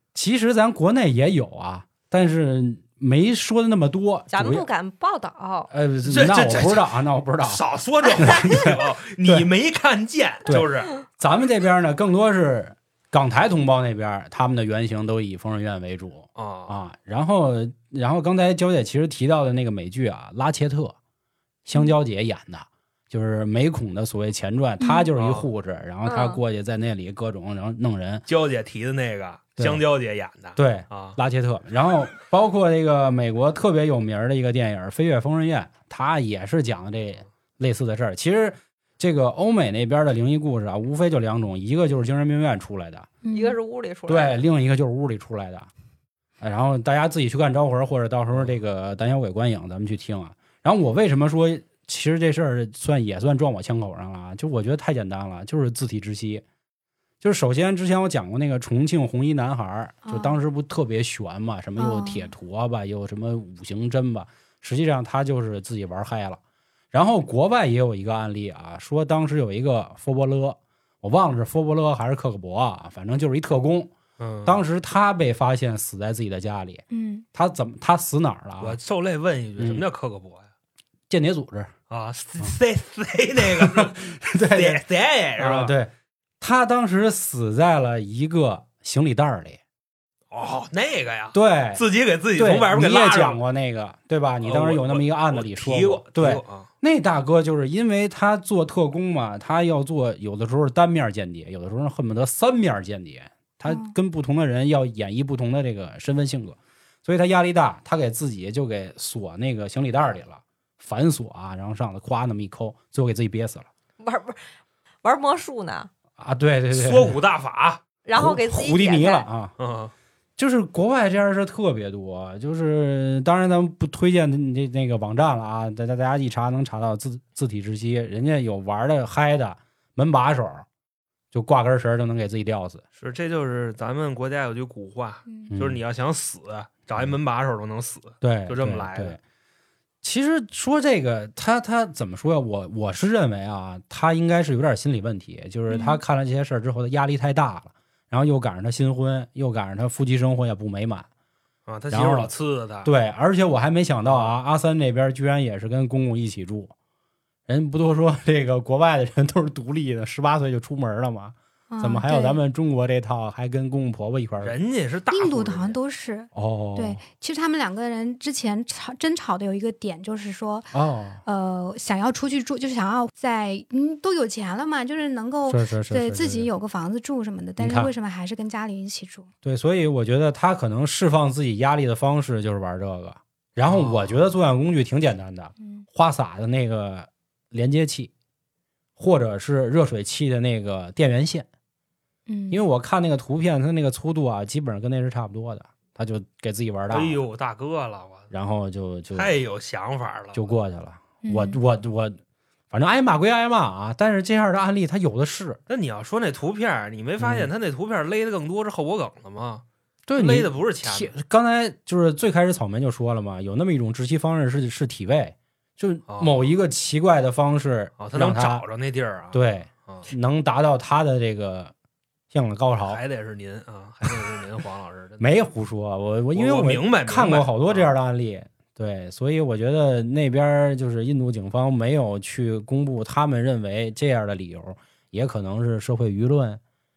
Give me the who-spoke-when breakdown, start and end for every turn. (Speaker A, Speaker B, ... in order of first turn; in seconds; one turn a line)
Speaker A: 0.1-4.7
Speaker B: 4.3-5.7
Speaker A: 5.7-7.6
Speaker C: 6.0-10.9
Speaker A: 8.2-9.5
Speaker A: 10.5-20.9
Speaker C: 16.4-16.8
Speaker A: 21.6-28.2
Speaker D: 24.8-25.1
Speaker C: 25.1-25.5
Speaker B: 26.0-26.4
Speaker C: 28.3-31.2
Speaker A: 30.6-43.1
Speaker D: 43.2-43.6
Speaker B: 43.3-44.4
Speaker A: 44.1-45.7
Speaker A: 46.4-56.4
Speaker A: 57.2-66.4
Speaker D: 60.0-60.4
Speaker D: 61.8-62.3
Speaker A: 66.9-73.9
Speaker C: 74.2-74.6
Speaker A: 74.4-78.8
Speaker D: 76.9-77.2
Speaker C: 78.6-80.5
Speaker A: 79.6-79.8
Speaker A: 81.1-81.7
Speaker C: 81.9-85.7
Speaker A: 83.4-84.8
Speaker A: 85.4-89.6
Speaker C: 90.3-93.4
Speaker A: 91.3-91.8
Speaker A: 92.3-113.7
Speaker C: 94.4-96.7
Speaker D: 103.7-103.9
Speaker B: 114.0-114.4
Speaker B: 115.0-115.9
Speaker A: 116.2-117.2
Speaker C: 116.7-117.8
Speaker B: 118.0-119.2
Speaker A: 118.1-119.5
Speaker C: 119.6-119.9
Speaker A: 120.4-130.7
Speaker A: 131.3-132.8
Speaker C: 133.0-139.2
Speaker A: 135.5-135.8
Speaker A: 138.2-139.2
Speaker A: 140.0-151.1
Speaker D: 145.7-146.0
Speaker C: 151.7-152.9
Speaker A: 151.9-152.3
Speaker A: 152.8-156.7
Speaker C: 154.0-154.3
Speaker A: 157.5-164.6
Speaker D: 161.7-162.4
Speaker C: 164.4-165.8
Speaker D: 165.1-170.7
Speaker A: 166.3-167.0
Speaker A: 170.7-171.2
Speaker D: 171.2-179.3
Speaker A: 175.5-176.5
Speaker A: 177.6-177.9
Speaker A: 179.4-188.1
Speaker C: 183.7-184.3
Speaker D: 185.6-185.8
Speaker A: 189.0-191.5
Speaker D: 192.3-192.6
Speaker A: 192.5-197.2
Speaker C: 196.9-198.3
Speaker A: 198.3-199.3
Speaker C: 199.1-200.5
Speaker A: 200.3-202.2
Speaker D: 201.2-201.6
Speaker A: 202.7-205.6
Speaker C: 205.7-209.6
Speaker A: 207.2-207.5
Speaker A: 210.1-218.6
Speaker C: 210.2-211.1
Speaker C: 216.1-216.4
Speaker C: 218.0-220.1
Speaker A: 219.3-221.7
Speaker A: 222.3-223.0
Speaker C: 222.8-225.2
Speaker A: 225.2-236.6
Speaker C: 226.3-227.9